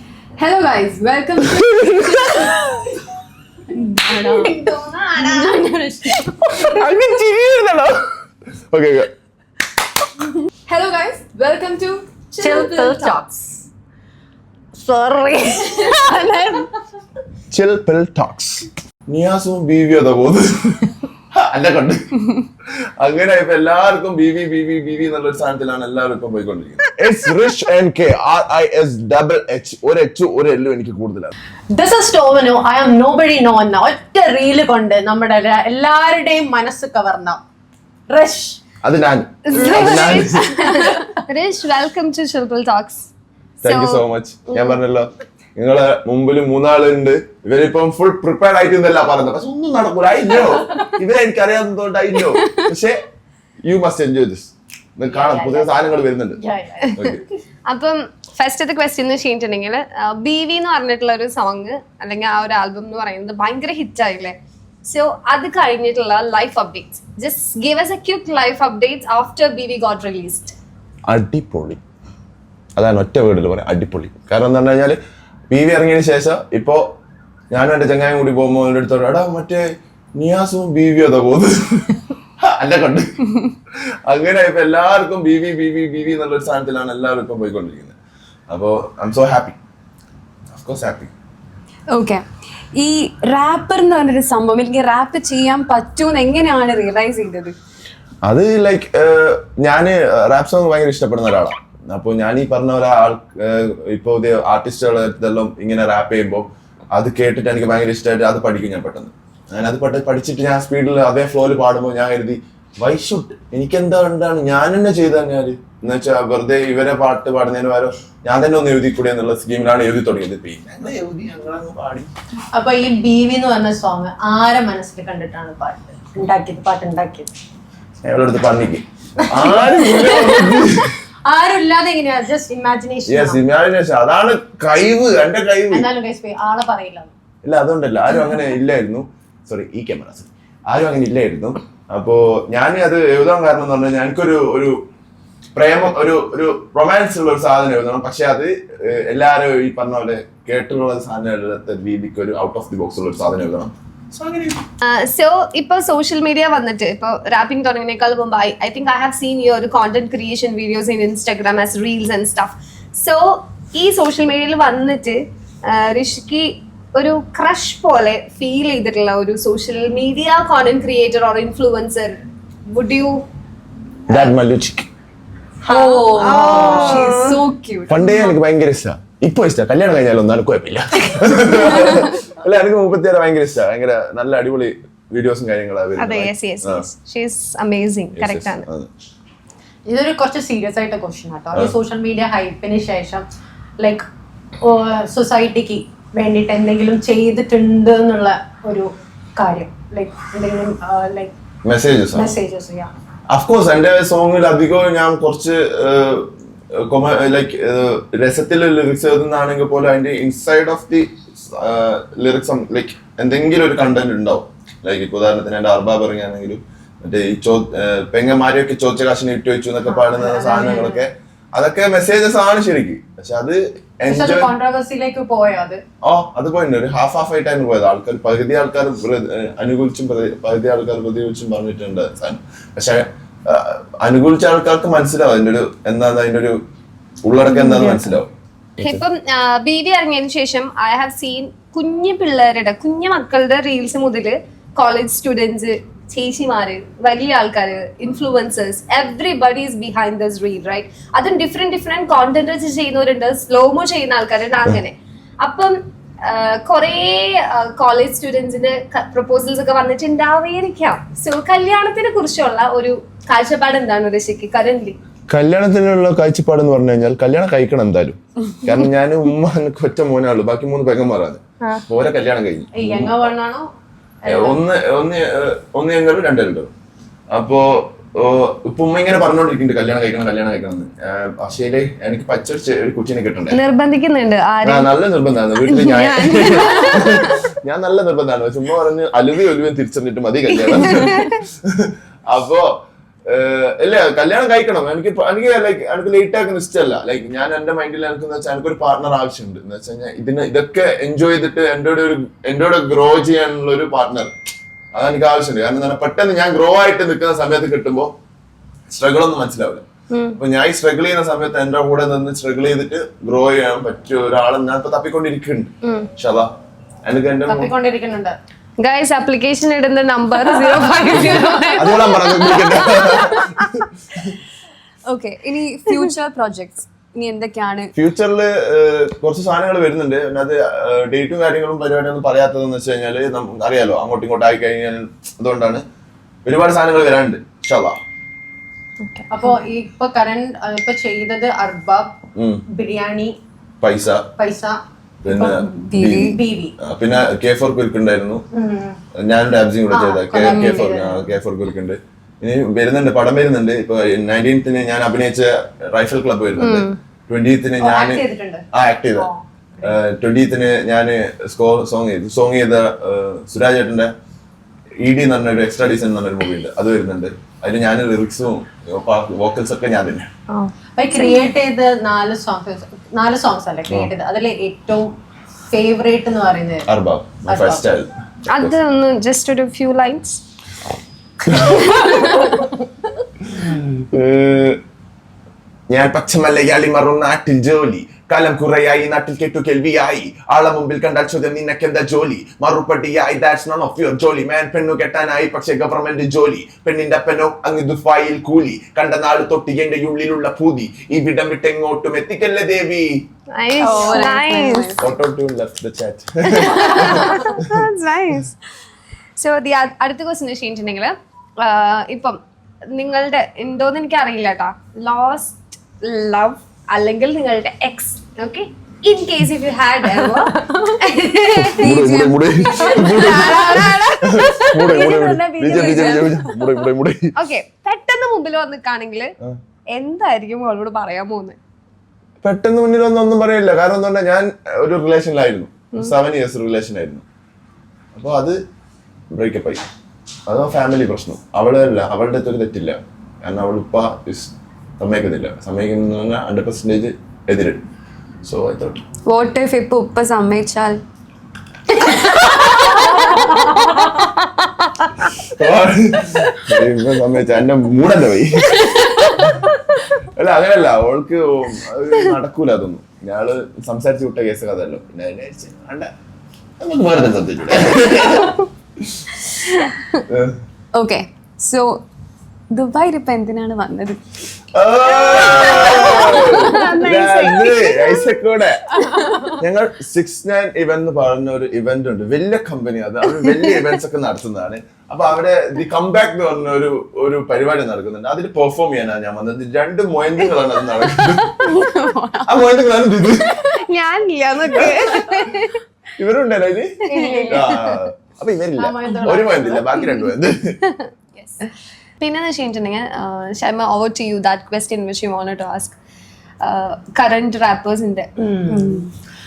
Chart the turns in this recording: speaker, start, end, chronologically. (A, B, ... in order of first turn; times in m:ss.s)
0:00.4-0:02.6 A
0:01.4-0:02.6 B
0:03.8-0:04.6 A
0:04.0-0:06.8 C
0:05.3-0:05.8 A
0:06.5-0:08.1 B
0:08.7-0:09.1 B
0:10.7-0:13.2 A
0:12.4-0:13.6 C
0:14.8-0:16.7 C
0:17.5-0:22.3 B
0:23.0-0:31.3 B
0:31.7-0:37.4 C
0:38.1-0:38.6 C
0:38.8-0:40.4 B
0:39.5-0:43.1 D
0:39.8-0:41.2 C
0:43.6-0:53.0 B
0:43.6-0:44.8 D
0:53.6-0:56.4 B
0:55.1-0:57.0 C
0:56.9-0:57.2 B
0:57.6-1:10.6 D
1:11.1-1:11.8 B
1:12.8-1:15.0 B
1:15.5-1:16.8 B
1:17.5-1:23.2 B
1:24.0-1:28.0 B
1:28.5-1:29.6 B
1:30.5-1:31.1 B
1:31.9-1:32.2 A
1:32.7-1:37.5 A
1:38.2-2:02.1 B
2:02.5-2:07.3 C
2:08.0-2:10.9 B
2:09.2-2:13.4 C
2:13.1-2:15.9 B
2:15.7-2:17.1 C
2:17.4-2:24.8 B
2:25.5-2:34.6 B
2:34.8-2:52.2 D
2:52.7-2:53.2 D
2:54.1-2:54.9 B
2:55.7-2:57.4 D
2:55.7-2:58.4 A
2:56.1-2:57.3 C
2:57.9-3:06.8 B
3:06.0-3:08.6 D
3:08.1-3:08.9 B
3:09.9-3:13.2 C
3:13.8-3:14.0 C
3:14.6-3:21.3 C
3:21.6-3:22.4 B
3:22.1-3:22.9 C
3:23.3-3:44.5 B
3:39.9-3:41.0 C
3:44.1-3:45.8 C
3:46.0-3:56.6 B
3:57.2-3:59.0 B
3:57.4-3:58.2 C
3:58.8-4:25.0 D
4:25.3-4:33.3 B
4:32.7-4:33.7 C
4:34.2-4:34.6 C
4:34.3-4:36.7 B
4:37.3-4:43.6 B
4:43.5-4:44.9 D
4:44.6-4:52.7 B
4:45.7-4:47.4 D
4:50.7-4:51.4 D
4:53.3-5:04.3 B
5:04.9-5:08.1 B
5:08.9-5:09.8 B
5:10.1-5:10.4 D
5:10.4-5:16.5 B
5:17.0-5:17.7 B
5:17.5-5:18.4 C
5:18.8-5:23.4 D
5:20.7-5:22.0 C
5:21.8-5:24.3 B
5:25.0-5:27.9 A
5:27.9-5:35.8 B
5:36.4-5:38.0 B
5:39.3-5:42.1 C
5:42.4-5:42.6 B
5:42.7-5:43.4 C
5:43.8-5:44.3 B
5:44.4-5:46.7 C
5:45.2-5:48.4 B
5:45.8-5:46.4 A
5:48.5-5:49.0 C
5:49.1-5:59.3 B
5:49.9-5:51.3 C
5:50.4-5:50.8 D
5:56.6-5:57.0 D
5:57.8-6:00.0 C
5:59.8-6:04.1 B
6:05.0-6:10.3 B
6:11.0-6:15.1 C
6:15.7-6:16.9 C
6:16.9-6:18.7 B
6:17.5-6:17.8 C
6:18.5-6:20.4 D
6:21.5-6:22.0 B
6:21.5-6:22.7 D
6:23.5-6:24.8 B
6:25.9-6:43.2 B
6:43.5-6:45.0 D
6:43.8-6:45.1 A
6:45.0-6:47.8 B
6:46.5-6:48.5 D
6:49.4-6:52.4 D
6:52.9-7:02.2 D
7:00.4-7:01.0 C
7:01.5-7:07.3 B
7:01.7-7:04.0 A
7:02.7-7:05.2 D
7:03.1-7:03.8 C
7:05.0-7:06.2 A
7:05.8-7:06.2 D
7:05.9-7:06.3 C
7:07.3-7:09.3 D
7:09.9-7:11.6 D
7:12.4-7:17.2 B
7:18.1-7:18.6 B
7:19.3-7:19.8 B
7:20.4-7:27.8 B
7:28.4-7:29.0 B
7:29.2-7:31.0 A
7:32.0-7:33.4 A
7:33.1-7:34.0 C
7:35.4-7:39.6 B
7:40.2-7:46.1 B
7:46.8-7:49.2 B
7:50.3-7:50.6 B
7:50.9-7:52.0 A
7:52.7-7:54.2 A
7:54.7-7:59.0 B
7:55.2-7:57.1 A
7:55.4-7:58.4 D
7:59.6-8:11.6 B
8:11.0-8:12.6 A
8:12.4-8:13.7 B
8:13.6-8:15.7 D
8:14.8-8:15.6 B
8:16.2-8:20.8 B
8:17.1-8:18.0 D
8:17.1-8:17.5 A
8:18.8-8:19.9 C
8:22.2-8:25.9 D
8:26.6-8:29.0 D
8:28.4-8:29.1 C